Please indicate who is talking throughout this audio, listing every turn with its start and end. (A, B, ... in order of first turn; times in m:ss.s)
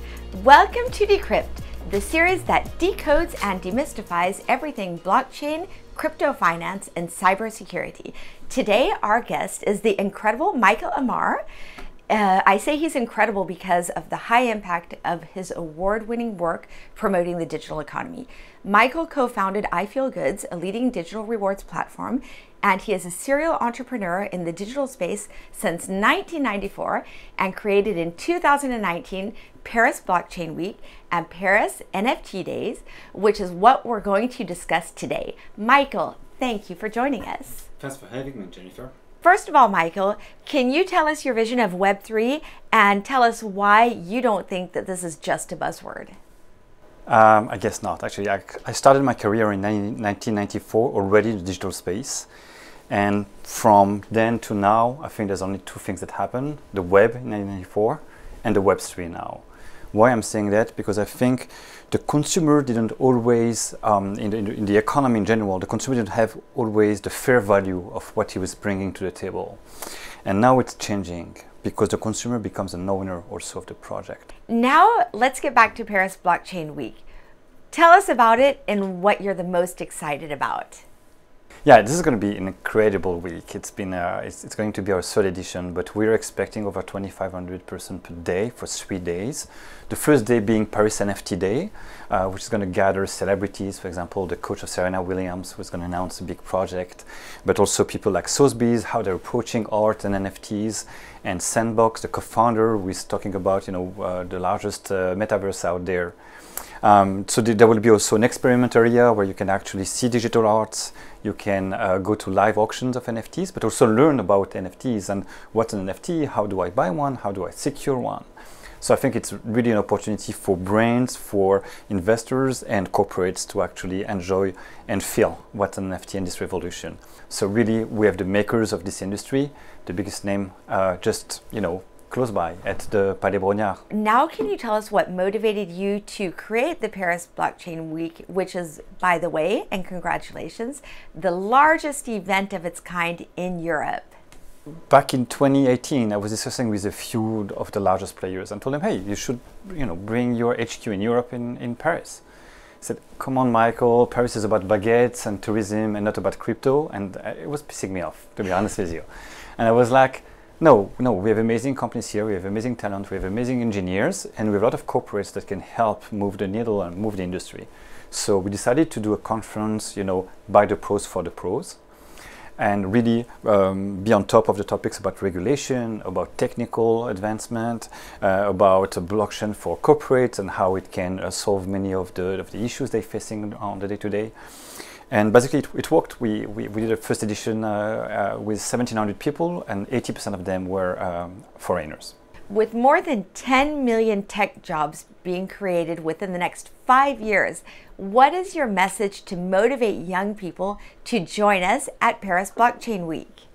0:00.3-0:11.4 A
0:12.1-0:37.7 A
0:37.8-0:38.9 B
0:39.2-0:46.1 A
0:47.1-0:52.3 B
0:52.9-1:09.6 B
1:10.2-1:14.3 B
1:14.5-1:17.0 A
1:17.7-1:20.8 A
1:21.6-1:46.2 B
1:46.8-1:58.3 B
1:58.8-2:13.8 B
2:13.9-2:24.1 A
2:24.9-2:32.2 B
2:32.8-2:39.1 B
2:39.6-2:51.8 B
2:52.6-3:04.3 B
3:05.1-3:12.1 B
3:12.5-3:23.4 A